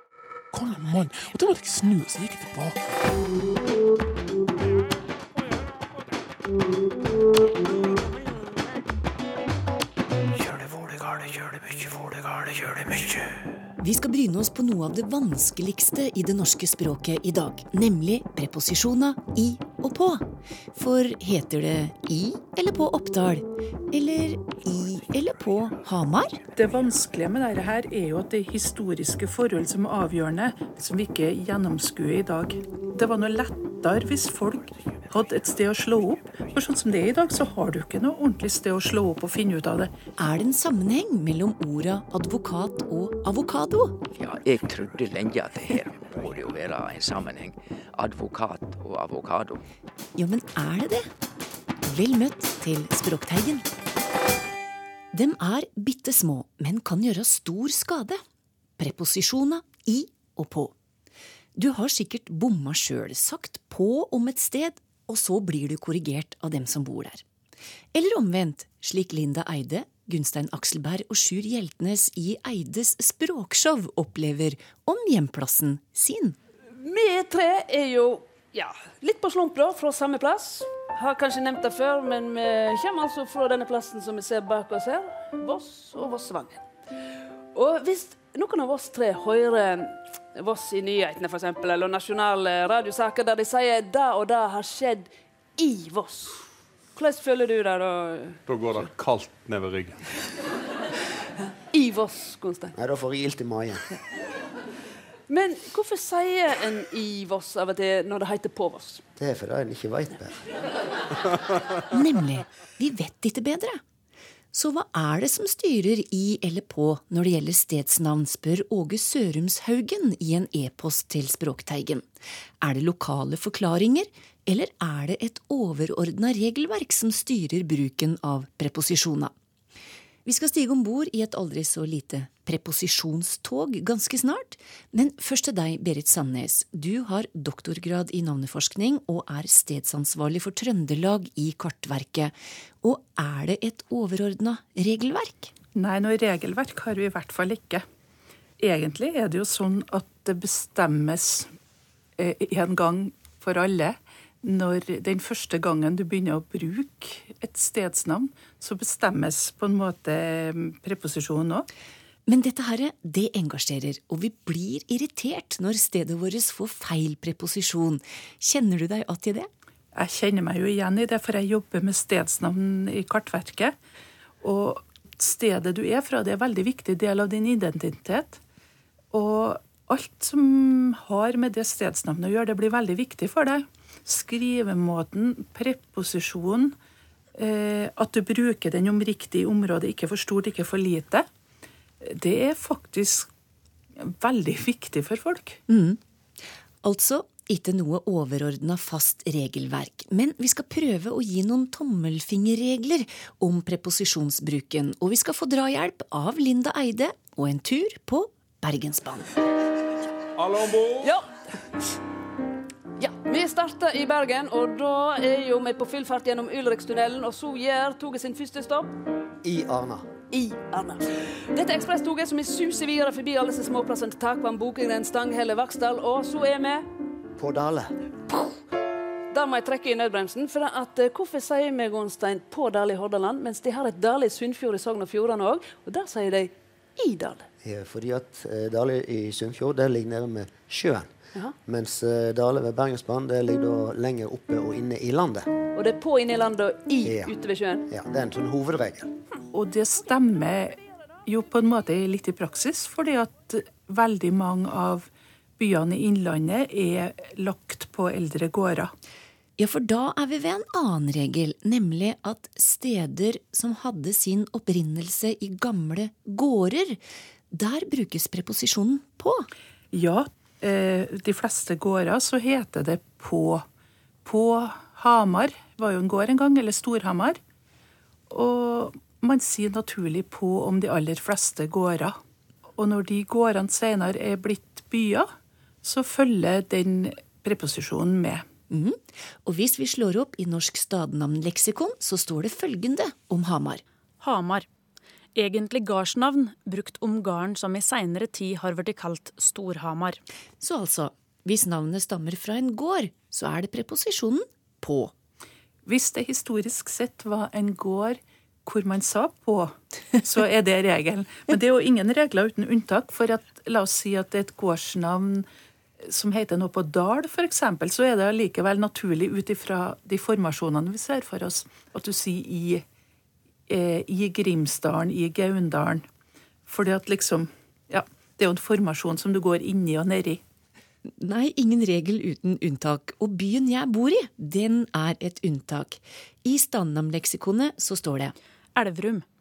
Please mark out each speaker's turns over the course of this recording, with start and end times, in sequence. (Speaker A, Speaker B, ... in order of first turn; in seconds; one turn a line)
Speaker A: 0.5-3.0
Speaker A: 10.3-13.2
Speaker B: 13.8-26.4
Speaker C: 26.6-39.9
Speaker B: 40.2-44.0
Speaker D: 44.1-49.6
Speaker B: 50.2-51.1
Speaker B: 51.8-53.7
Speaker B: 55.1-58.2
Speaker B: 58.8-60.7
Speaker B: 61.6-67.2
Speaker B: 67.9-76.4
Speaker E: 76.8-86.7
Speaker E: 87.5-96.5
Speaker E: 97.0-98.4
Speaker F: 98.5-100.1
Speaker E: 101.7-102.8
Speaker G: 102.8-103.9
Speaker E: 105.3-109.0
Speaker G: 109.2-110.4
Speaker B: 111.9-113.8
Speaker B: 114.5-122.1
Speaker B: 122.6-129.3
Speaker B: 130.2-145.5
Speaker C: 145.8-147.8
Speaker C: 148.6-151.5
Speaker C: 152.2-161.7
Speaker B: 162.3-169.5
Speaker C: 169.9-173.7
Speaker C: 174.4-178.4
Speaker C: 179.1-186.8
Speaker C: 187.3-191.3
Speaker C: 192.0-193.3
Speaker C: 194.0-195.6
Speaker B: 195.7-196.0
Speaker B: 196.8-209.4
Speaker F: 210.4-211.1
Speaker E: 211.0-211.3
Speaker E: 213.0-218.9
Speaker G: 219.4-220.1
Speaker E: 220.3-226.9
Speaker G: 227.4-227.9
Speaker E: 229.3-237.5
Speaker G: 237.6-241.1
Speaker G: 241.7-245.5
Speaker E: 245.8-247.9
Speaker G: 247.0-247.3
Speaker G: 247.9-249.1
Speaker C: 249.5-258.9
Speaker B: 259.6-267.0
Speaker B: 267.5-269.5
Speaker C: 269.9-273.6
Speaker C: 274.2-277.4
Speaker C: 278.3-282.2
Speaker C: 282.8-285.3
Speaker C: 285.8-288.4
Speaker B: 288.7-293.8
Speaker H: 294.2-294.7
Speaker H: 295.4-300.2
Speaker B: 300.6-305.1
Speaker C: 305.9-315.4
Speaker C: 316.0-322.9
Speaker C: 323.7-326.1
Speaker C: 326.7-330.4
Speaker B: 331.1-338.4
Speaker H: 338.8-339.2